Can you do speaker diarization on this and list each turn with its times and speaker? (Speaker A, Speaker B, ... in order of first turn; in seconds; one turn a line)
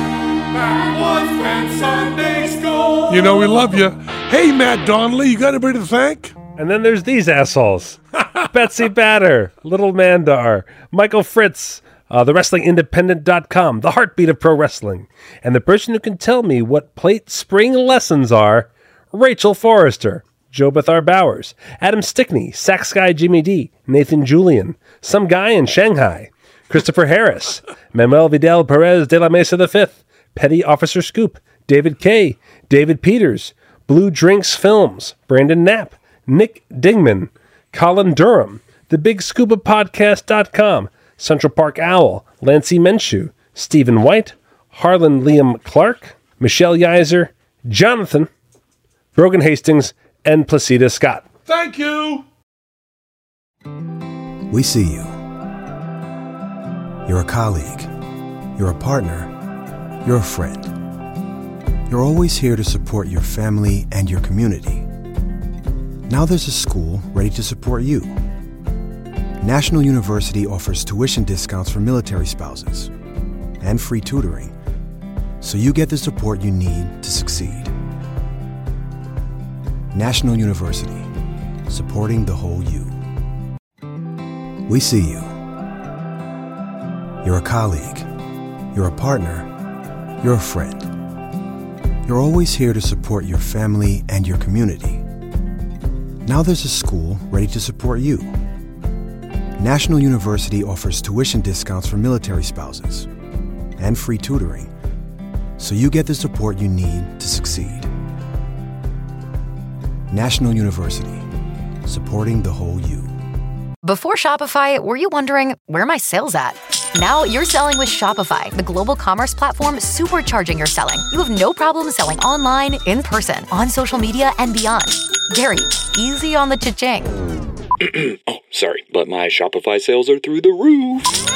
Speaker A: 0.6-6.3
Speaker B: 6.6-48.3
Speaker B: 49.1-51.3
Speaker A: 51.5-52.2
Speaker C: 54.5-55.1
Speaker C: 57.0-57.9
Speaker C: 58.5-59.3
Speaker C: 60.0-60.7
Speaker C: 61.9-64.9
Speaker C: 66.1-68.2
Speaker C: 69.4-72.9
Speaker C: 73.6-74.5
Speaker C: 75.4-77.7
Speaker C: 79.9-81.1
Speaker C: 81.7-83.0
Speaker C: 84.7-85.4
Speaker C: 87.2-88.1
Speaker C: 88.7-89.5
Speaker C: 90.2-90.9
Speaker C: 92.0-95.0
Speaker C: 96.2-98.4
Speaker C: 99.6-103.1
Speaker C: 103.8-104.7
Speaker C: 105.6-107.9
Speaker C: 110.1-111.2
Speaker C: 111.8-113.1
Speaker D: 113.8-127.1
Speaker E: 127.8-131.2